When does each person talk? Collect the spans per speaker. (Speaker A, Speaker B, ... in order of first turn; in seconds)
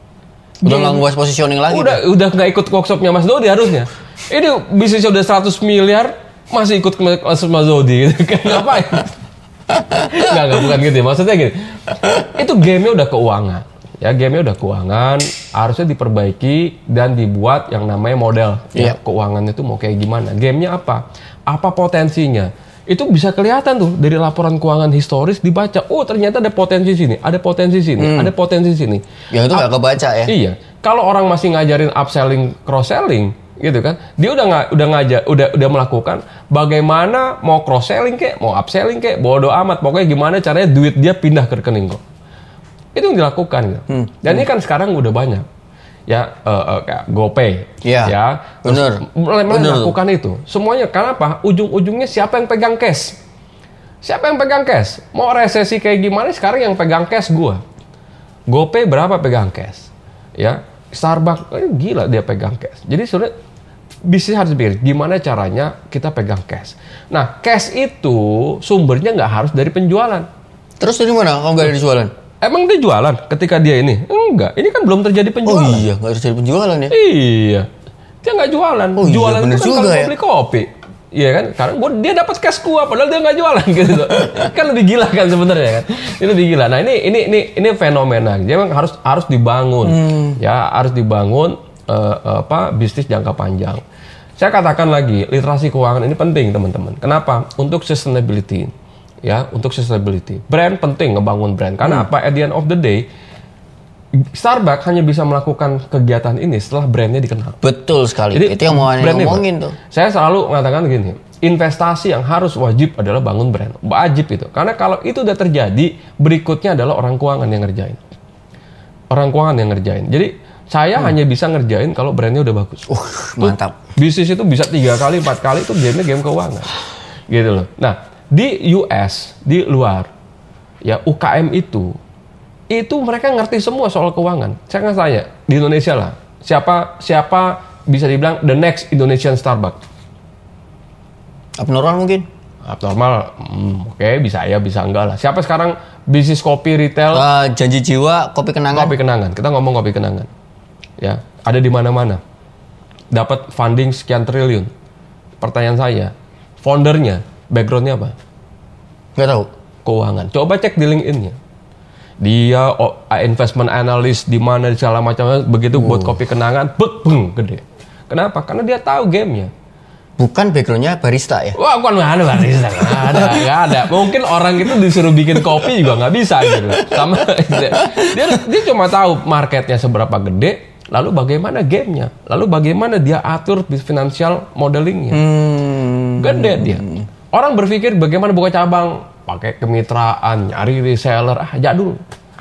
Speaker A: 0.6-1.0, 1.7-9.1, 9.8-29.7, 30.2-42.0, 42.9-45.5, 46.1-53.2, 54.0-57.6, 58.5-63.3, 64.1-70.3, 72.4-75.8, 76.9-77.7, 78.2-93.8, 94.4-98.7, 99.2-103.0, 104.3-107.6, 108.3-118.0, 119.1-122.9, 123.4-126.7, 127.3-130.1, 130.8-131.9, 132.7-139.8, 142.7-147.2, 148.7-150.3, 151.0-152.2, 153.1-154.7, 155.4-158.1, 159.8-161.3, 162.2-169.5, 171.6-185.2, 186.2-192.0
Speaker B: 0.6-2.0, 28.0-28.3, 29.3-30.3, 43.9-44.4, 47.8-49.9, 70.8-72.1, 75.4-76.9, 79.0-80.1, 89.8-90.4, 107.6-109.8, 122.9-123.7, 141.6-142.2, 147.1-148.9, 159.2-159.5, 165.7-166.1, 170.2-171.6, 172.9-173.5, 175.4-175.7, 176.4-178.4, 185.1-187.1